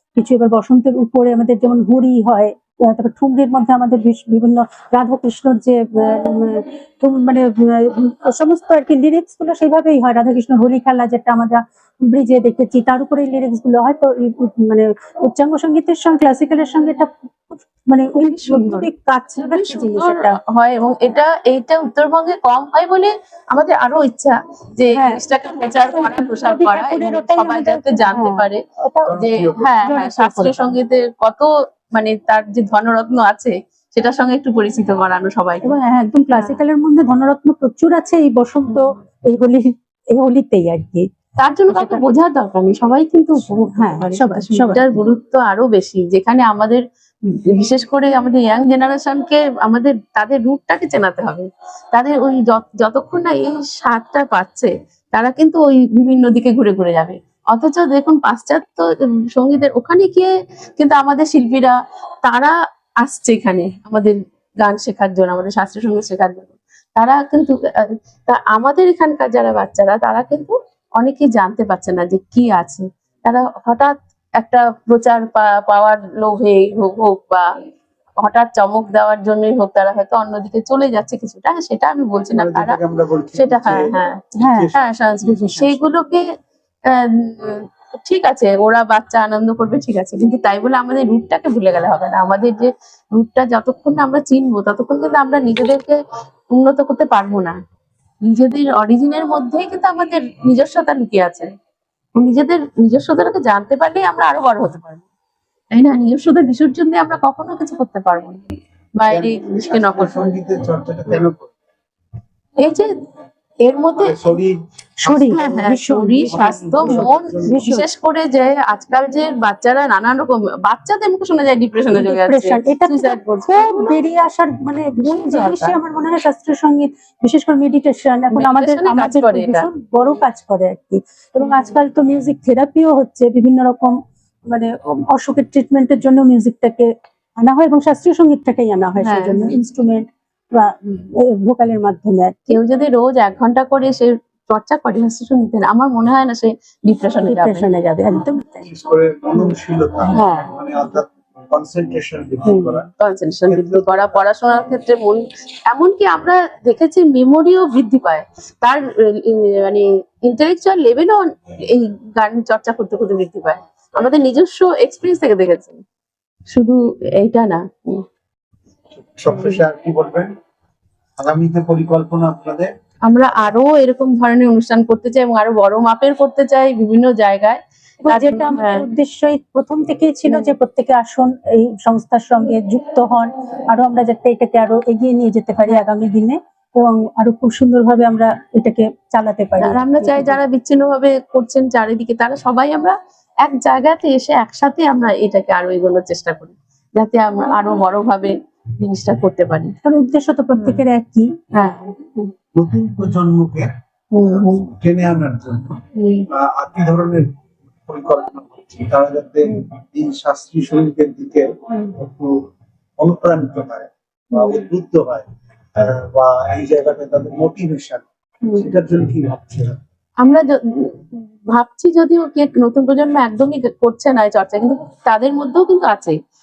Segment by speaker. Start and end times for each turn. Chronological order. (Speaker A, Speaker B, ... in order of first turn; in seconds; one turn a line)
Speaker A: 0.1-20.4
Speaker B: 18.2-18.9
Speaker B: 19.4-28.6
Speaker A: 24.9-25.2
Speaker A: 25.9-30.6
Speaker B: 29.1-35.7
Speaker C: 29.3-29.6
Speaker A: 35.6-41.1
Speaker B: 41.4-46.8
Speaker A: 41.7-42.0
Speaker A: 43.7-44.9
Speaker B: 47.6-62.5
Speaker B: 63.0-67.6
Speaker B: 68.3-77.5
Speaker B: 78.2-82.8
Speaker C: 82.3-83.9
Speaker B: 83.3-86.2
Speaker A: 84.4-84.7
Speaker C: 84.5-85.9
Speaker B: 86.9-96.0
Speaker B: 96.5-97.6
Speaker B: 98.3-101.5
Speaker B: 102.2-105.0
Speaker B: 105.7-108.4
Speaker B: 109.0-110.3
Speaker C: 109.1-111.5
Speaker B: 112.6-112.9
Speaker B: 113.7-114.1
Speaker C: 114.0-114.6
Speaker A: 115.0-117.9
Speaker B: 115.1-123.5
Speaker C: 116.3-117.5
Speaker A: 121.9-134.0
Speaker B: 125.0-125.8
Speaker B: 128.3-129.7
Speaker A: 134.5-142.6
Speaker B: 139.0-139.4
Speaker B: 142.5-147.7
Speaker A: 147.2-148.7
Speaker C: 148.7-152.9
Speaker B: 150.1-150.5
Speaker B: 152.4-165.8
Speaker C: 153.5-154.2
Speaker B: 166.5-168.0
Speaker C: 168.9-170.3
Speaker B: 169.3-169.6
Speaker C: 171.2-172.7
Speaker B: 173.1-178.8
Speaker A: 178.0-190.4
Speaker B: 189.6-199.7
Speaker A: 199.8-201.3
Speaker B: 201.6-202.3
Speaker C: 202.6-203.7
Speaker B: 204.1-204.7
Speaker C: 204.3-205.8
Speaker B: 205.9-206.3
Speaker C: 206.3-207.3
Speaker C: 207.9-212.4
Speaker C: 213.0-218.0
Speaker B: 214.3-214.7
Speaker C: 218.6-219.8
Speaker B: 220.2-220.6
Speaker B: 221.1-226.2